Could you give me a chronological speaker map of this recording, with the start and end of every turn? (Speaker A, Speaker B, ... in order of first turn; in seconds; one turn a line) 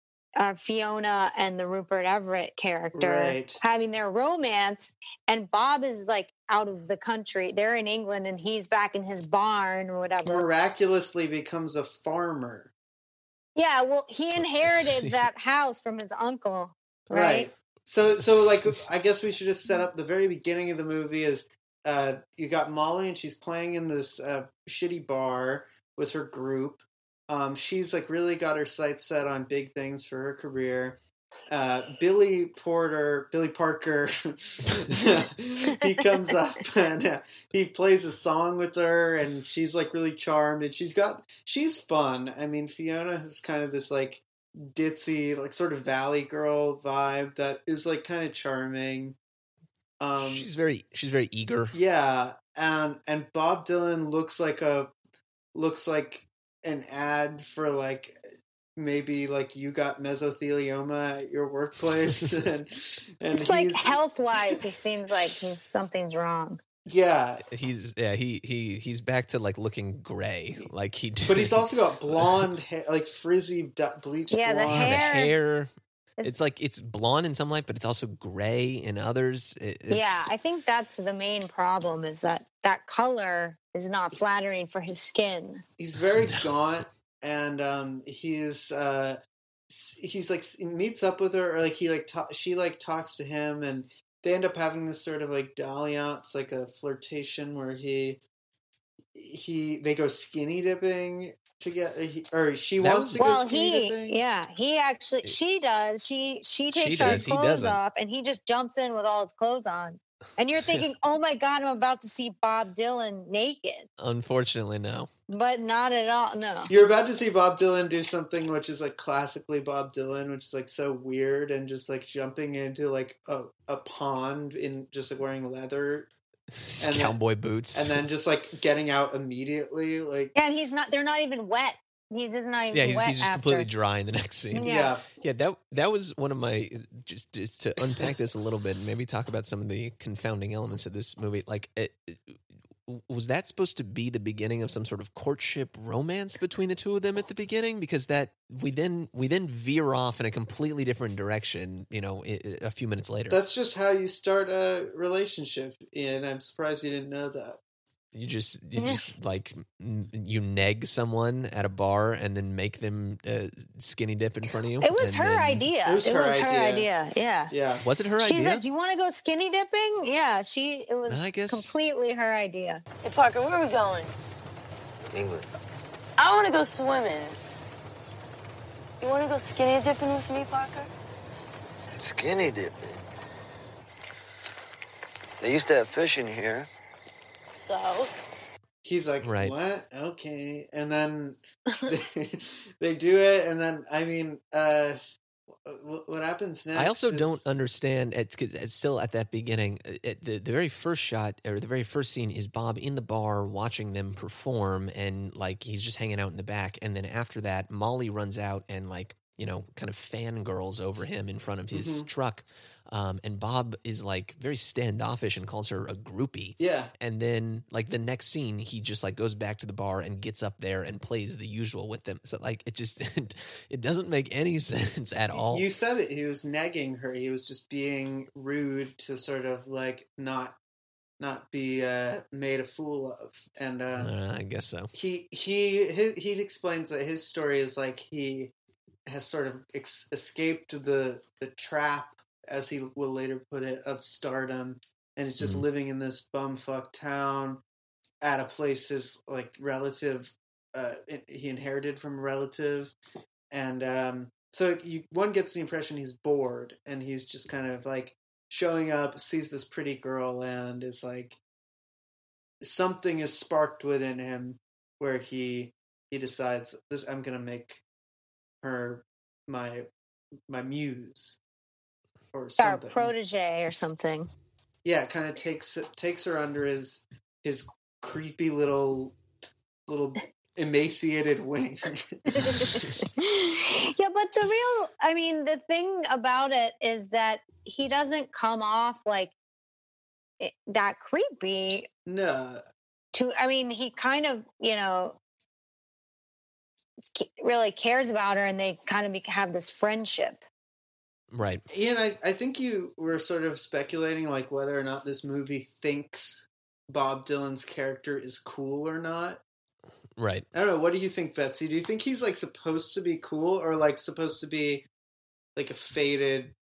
Speaker A: 0.4-10.5
Speaker B: 2.9-3.6
Speaker B: 10.2-12.7
Speaker A: 13.6-17.5
Speaker C: 14.7-15.2
Speaker B: 17.1-49.2
Speaker B: 50.0-50.5
Speaker C: 50.2-51.8
Speaker B: 51.7-54.9
Speaker B: 55.5-58.2
Speaker B: 58.8-64.0
Speaker C: 62.0-62.5
Speaker A: 63.3-66.6
Speaker B: 66.9-67.5
Speaker C: 67.5-72.5
Speaker B: 71.3-75.1
Speaker A: 74.3-75.3
Speaker C: 74.7-75.7
Speaker C: 76.2-80.3
Speaker A: 79.9-85.6
Speaker B: 85.8-98.2
Speaker B: 99.1-104.2
Speaker C: 102.8-103.3
Speaker A: 103.2-113.9
Speaker C: 106.7-107.8
Speaker B: 107.0-107.2
Speaker C: 114.0-115.1
Speaker A: 115.3-116.7
Speaker B: 116.7-126.1
Speaker C: 126.7-128.1
Speaker B: 126.8-127.2
Speaker B: 127.7-130.3
Speaker A: 130.3-133.7
Speaker C: 132.7-153.4
Speaker A: 134.5-134.9
Speaker B: 134.6-135.0
Speaker B: 153.3-157.6
Speaker C: 158.1-165.7
Speaker A: 164.8-167.5
Speaker B: 165.8-166.9
Speaker B: 167.5-167.8
Speaker C: 167.8-168.6
Speaker A: 168.2-172.8
Speaker C: 171.1-171.8
Speaker D: 173.0-174.1
Speaker E: 175.1-175.5
Speaker D: 176.2-177.4
Speaker D: 179.0-180.9
Speaker E: 181.9-183.0
Speaker E: 185.4-186.7
Speaker D: 187.5-188.1
Speaker B: 188.8-195.0
Speaker C: 189.2-189.5
Speaker B: 195.7-197.4
Speaker C: 196.8-225.7
Speaker B: 211.7-212.1
Speaker B: 216.6-216.9
Speaker B: 225.3-230.6
Speaker B: 231.2-234.1
Speaker C: 234.0-234.9
Speaker B: 234.9-238.5
Speaker B: 239.1-247.6
Speaker C: 245.4-245.7
Speaker B: 248.2-252.9
Speaker B: 253.5-261.4
Speaker B: 262.6-267.8
Speaker B: 268.6-269.9
Speaker B: 270.5-271.4
Speaker B: 272.3-273.1
Speaker A: 272.6-274.3
Speaker B: 274.9-279.2
Speaker B: 279.9-282.7
Speaker A: 282.5-289.3
Speaker A: 290.4-291.9
Speaker B: 292.1-292.6
Speaker A: 293.1-295.2
Speaker A: 297.1-300.4
Speaker C: 301.3-301.6
Speaker B: 301.7-309.4
Speaker C: 310.2-310.4
Speaker B: 310.5-314.9
Speaker B: 315.6-316.5